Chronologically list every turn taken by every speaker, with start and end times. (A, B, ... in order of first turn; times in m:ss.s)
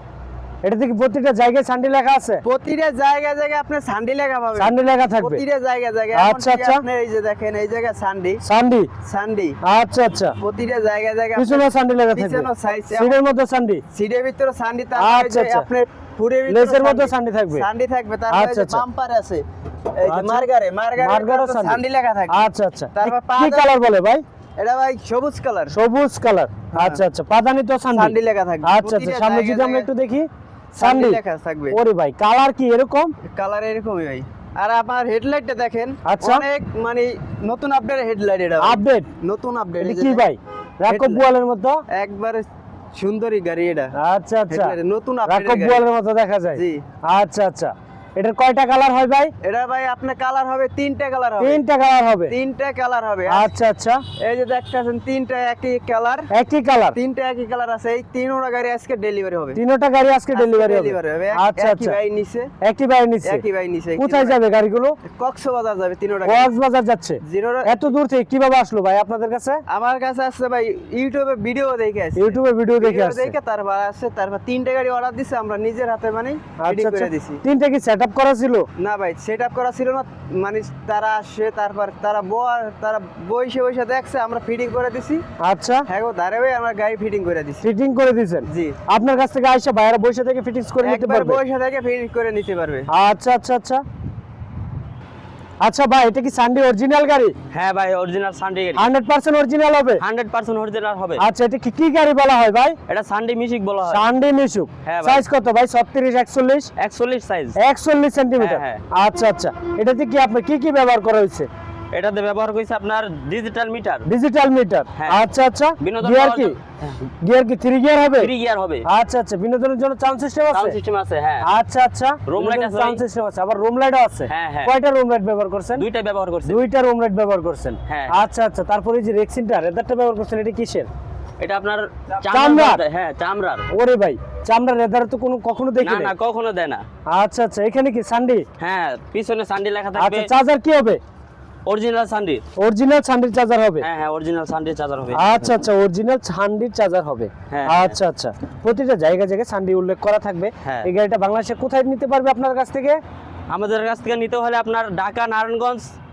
0:00.6-0:02.4 A
0:02.4-0:08.4 B
0:04.6-0:05.4 A
0:06.1-0:06.8 A
0:08.4-0:08.9 A
0:09.0-0:09.6 B
0:09.6-0:10.4 A
0:10.4-0:13.2 B
0:11.4-0:13.8 A
0:13.9-0:23.8 B
0:15.0-0:15.7 A
0:16.5-0:17.6 A
0:18.3-0:18.8 A
0:20.1-0:20.5 A
0:21.0-0:24.2 A
0:24.6-0:25.8 B
0:25.7-0:28.1 A
0:26.7-0:27.0 B
0:27.9-0:29.9 B
0:28.6-0:30.3 A
0:30.8-0:31.8 B
0:30.8-0:31.2 A
0:31.7-0:33.1 A
0:33.3-0:40.3 B
0:36.0-0:36.4 A
0:38.6-0:39.1 A
0:39.8-0:41.8 A
0:40.9-0:41.2 B
0:41.9-0:43.9 B
0:44.0-0:44.8 A
0:44.5-0:45.9 B
0:45.3-0:49.3 A
0:46.5-0:46.8 B
0:49.4-0:51.6 B
0:51.4-0:52.3 A
0:52.3-0:53.5 B
0:53.3-0:54.0 A
0:54.2-0:56.3 B
0:56.3-0:57.0 A
0:56.9-0:59.6 B
0:59.6-1:02.0 A
1:00.3-1:02.5 B
1:02.6-1:03.4 A
1:03.2-1:04.4 B
1:04.0-1:05.0 A
1:05.2-1:06.5 B
1:06.2-1:09.6 A
1:07.2-1:07.9 B
1:09.7-1:17.4 B
1:12.2-1:13.3 A
1:16.6-1:18.7 A
1:18.8-1:25.2 B
1:25.4-1:25.9 A
1:25.9-1:27.7 B
1:27.6-1:31.4 A
1:28.5-1:28.8 B
1:30.8-1:32.9 B
1:32.9-1:33.8 A
1:35.6-1:37.4 A
1:37.5-1:38.8 C
1:38.8-1:40.0 A
1:40.0-1:41.2 C
1:41.2-1:42.8 A
1:42.9-1:44.0 C
1:43.9-1:46.7 A
1:44.8-1:45.3 C
1:46.8-1:47.6 C
1:47.6-1:51.5 A
1:48.4-1:48.8 C
1:51.9-1:54.1 C
1:54.1-1:56.6 A
1:55.8-1:57.0 C
1:57.2-1:58.3 A
1:58.2-1:58.8 C
1:58.9-2:00.8 A
2:00.5-2:01.5 C
2:01.4-2:05.8 A
2:02.3-2:03.0 C
2:04.3-2:04.7 C
2:05.8-2:06.6 C
2:06.5-2:10.9 A
2:07.9-2:08.1 C
2:11.4-2:13.7 C
2:12.3-2:12.8 A
2:13.7-2:16.1 A
2:15.8-2:16.8 C
2:17.1-2:18.4 A
2:18.6-2:20.3 C
2:20.0-2:21.0 A
2:21.7-2:22.4 C
2:22.6-2:23.9 A
2:23.8-2:25.5 C
2:25.1-2:33.0 A
2:27.5-2:28.0 C
2:30.6-2:30.9 C
2:33.5-2:35.9 C